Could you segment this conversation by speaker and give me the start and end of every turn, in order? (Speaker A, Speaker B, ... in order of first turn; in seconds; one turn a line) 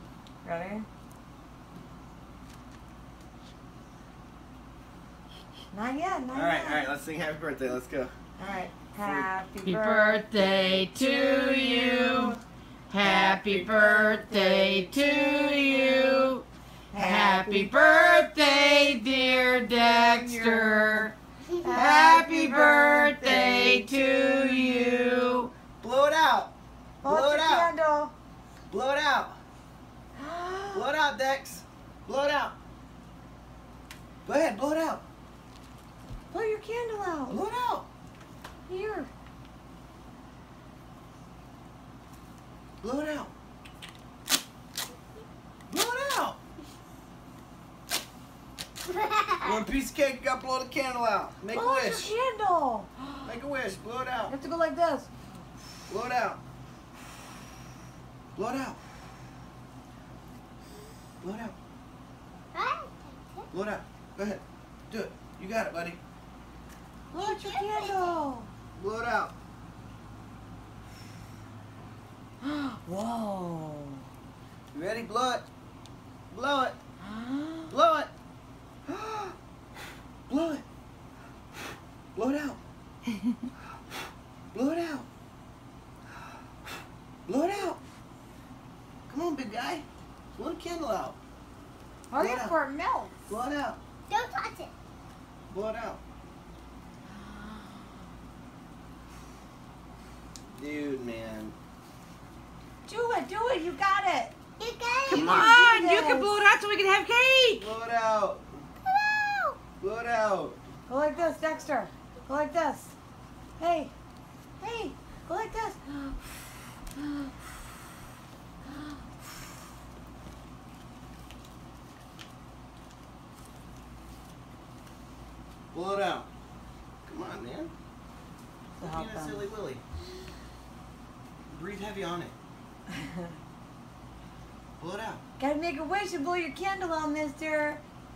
Speaker A: 0.4-0.9
Speaker A: 5.7-6.9
Speaker B: 6.3-8.1
Speaker A: 8.4-10.3
Speaker C: 9.6-12.4
Speaker C: 12.9-21.1
Speaker B: 13.0-14.4
Speaker A: 16.9-18.3
Speaker A: 19.8-21.1
Speaker A: 21.6-23.8
Speaker C: 21.7-25.5
Speaker B: 25.8-26.5
Speaker A: 27.0-28.1
Speaker B: 27.0-27.7
Speaker B: 28.7-29.4
Speaker A: 30.2-30.9
Speaker B: 30.7-32.5
Speaker B: 34.2-35.0
Speaker A: 36.3-37.4
Speaker B: 37.3-37.9
Speaker A: 38.7-39.1
Speaker B: 42.8-43.3
Speaker B: 45.7-46.4
Speaker D: 48.8-49.6
Speaker B: 49.4-52.1
Speaker A: 51.5-53.4
Speaker B: 53.2-54.3
Speaker A: 54.3-55.1
Speaker B: 55.9-56.4
Speaker B: 58.4-58.8
Speaker B: 61.2-61.5
Speaker D: 62.5-63.5
Speaker B: 63.5-66.0
Speaker A: 67.1-68.5
Speaker D: 67.1-68.2
Speaker B: 68.7-69.3
Speaker A: 72.4-74.0
Speaker B: 74.7-75.4
Speaker B: 76.3-76.8
Speaker A: 77.0-77.7
Speaker B: 77.7-78.1
Speaker B: 78.8-79.3
Speaker B: 80.3-80.6
Speaker B: 82.1-82.6
Speaker B: 84.5-85.1
Speaker B: 87.3-87.8
Speaker B: 89.1-91.2
Speaker A: 92.1-93.2
Speaker B: 92.2-92.5
Speaker B: 93.3-93.8
Speaker D: 94.1-94.7
Speaker B: 95.5-96.0
Speaker A: 97.1-97.9
Speaker B: 100.5-101.5
Speaker A: 102.8-104.4
Speaker D: 104.6-105.4
Speaker C: 105.1-107.7
Speaker A: 105.1-106.3
Speaker B: 107.6-108.6
Speaker D: 108.9-109.6
Speaker B: 109.8-110.6
Speaker A: 110.9-112.9
Speaker A: 113.6-113.9
Speaker A: 114.6-116.2
Speaker A: 117.0-117.3
Speaker A: 118.7-119.0
Speaker B: 125.7-126.3
Speaker B: 127.0-127.7
Speaker A: 128.8-129.4
Speaker B: 128.8-129.8
Speaker B: 131.5-132.3
Speaker A: 132.9-133.3
Speaker B: 134.8-135.2
Speaker A: 135.4-137.8